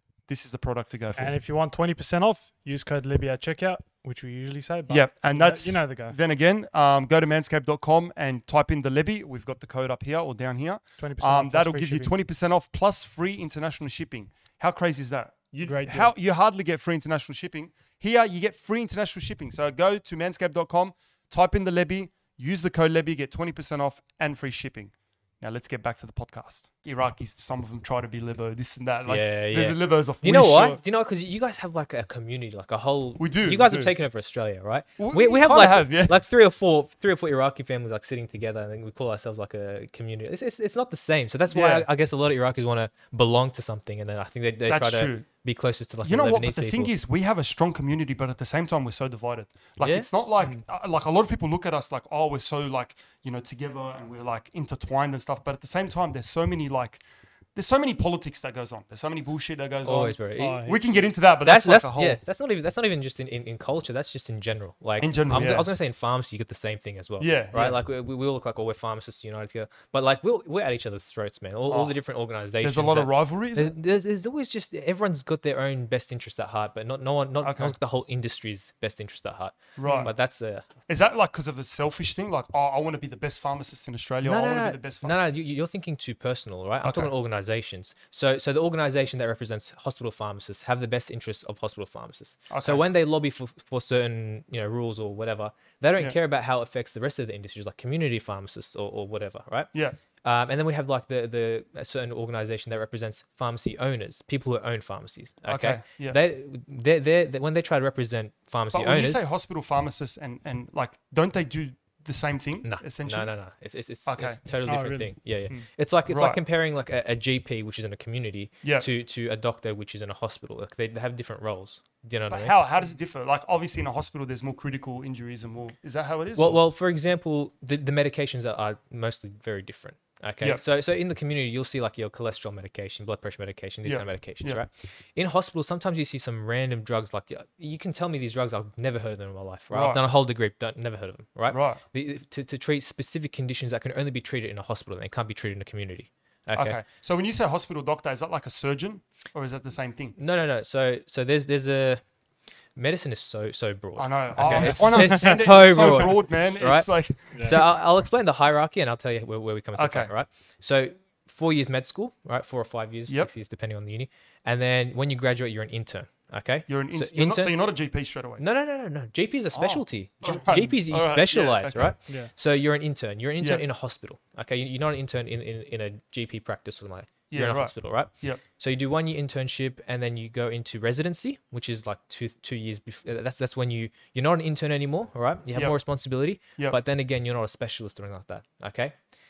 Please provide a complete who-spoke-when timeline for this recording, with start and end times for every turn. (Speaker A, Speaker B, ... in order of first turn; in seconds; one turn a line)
Speaker A: 0.3-1.4
Speaker B: 1.1-6.2
Speaker A: 4.9-30.8
Speaker B: 11.0-12.1
Speaker B: 15.6-16.1
Speaker C: 29.1-46.9
Speaker A: 33.2-34.0
Speaker A: 35.0-36.2
Speaker A: 41.5-41.9
Speaker A: 44.7-45.3
Speaker A: 46.0-62.2
Speaker C: 49.8-50.1
Speaker C: 59.8-60.7
Speaker B: 60.4-60.9
Speaker C: 61.4-80.7
Speaker A: 65.0-65.7
Speaker A: 67.2-67.8
Speaker A: 71.7-72.0
Speaker A: 72.6-73.7
Speaker A: 77.4-77.8
Speaker A: 79.8-80.1
Speaker A: 80.9-85.2
Speaker C: 84.2-99.7
Speaker A: 86.8-87.1
Speaker A: 92.5-92.8
Speaker C: 100.2-109.2
Speaker A: 105.5-106.2
Speaker A: 108.7-113.3
Speaker C: 112.6-122.6
Speaker A: 114.0-114.4
Speaker B: 114.6-115.7
Speaker A: 116.1-116.4
Speaker A: 118.6-118.9
Speaker A: 122.3-126.6
Speaker C: 126.3-146.8
Speaker A: 133.8-134.6
Speaker A: 139.7-140.0
Speaker A: 141.5-141.8
Speaker A: 146.5-150.2
Speaker C: 150.2-152.0
Speaker C: 152.8-167.6
Speaker A: 154.0-157.6
Speaker B: 154.4-155.9
Speaker B: 157.3-157.6
Speaker A: 159.8-160.1
Speaker A: 166.7-168.4
Speaker C: 168.4-188.9
Speaker A: 169.5-171.9
Speaker A: 173.4-173.6
Speaker A: 177.3-178.4